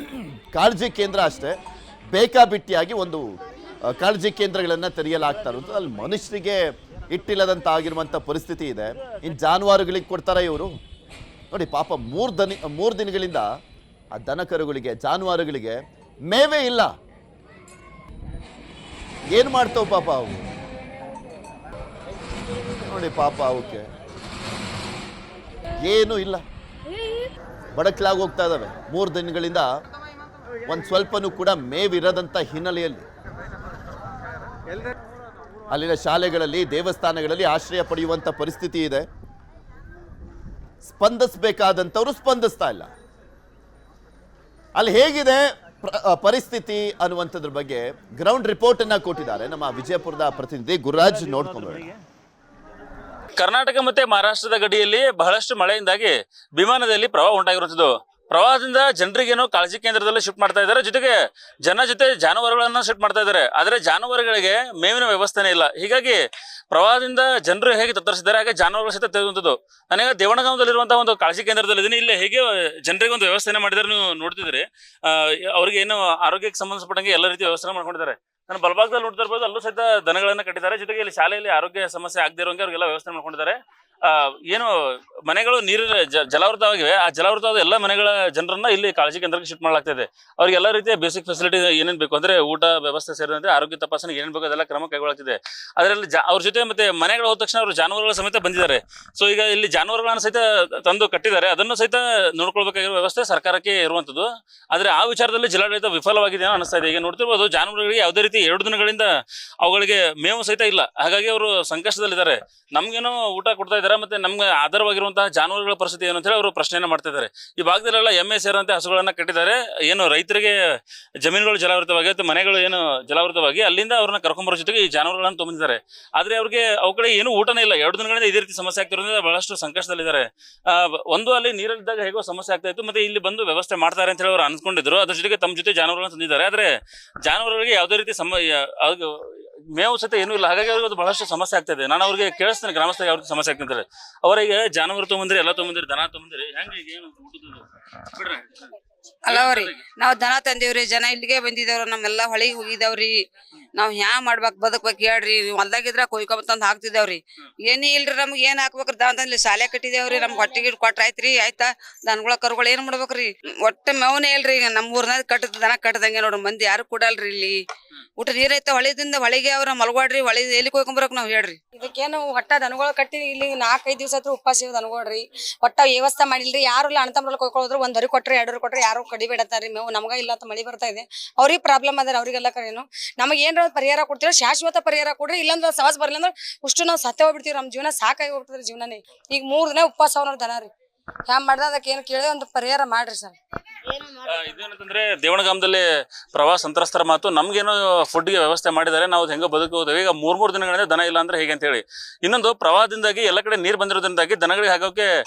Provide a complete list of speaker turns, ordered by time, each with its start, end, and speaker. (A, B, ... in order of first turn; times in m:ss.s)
0:00.5-0:01.6 A
0:02.1-0:03.4 A
0:03.9-0:10.7 A
0:11.5-0:13.5 A
0:14.2-0:16.9 A
0:19.3-0:20.5 A
0:22.9-0:23.8 A
0:25.8-0:26.4 A
0:27.8-0:29.7 A
0:30.7-0:33.1 A
0:35.7-0:39.1 A
0:40.8-0:42.9 A
0:44.8-0:51.9 A
0:51.3-0:51.8 B
0:53.4-1:49.1 B
1:49.6-2:00.6 B
2:01.2-2:16.7 B
2:17.2-2:28.8 B
2:29.3-2:33.2 C
2:29.3-2:29.8 B
2:33.8-2:47.6 C
2:40.2-2:40.6 D
2:48.2-2:51.6 C
2:51.8-3:10.7 D
3:11.3-3:13.4 D
3:13.9-3:25.1 B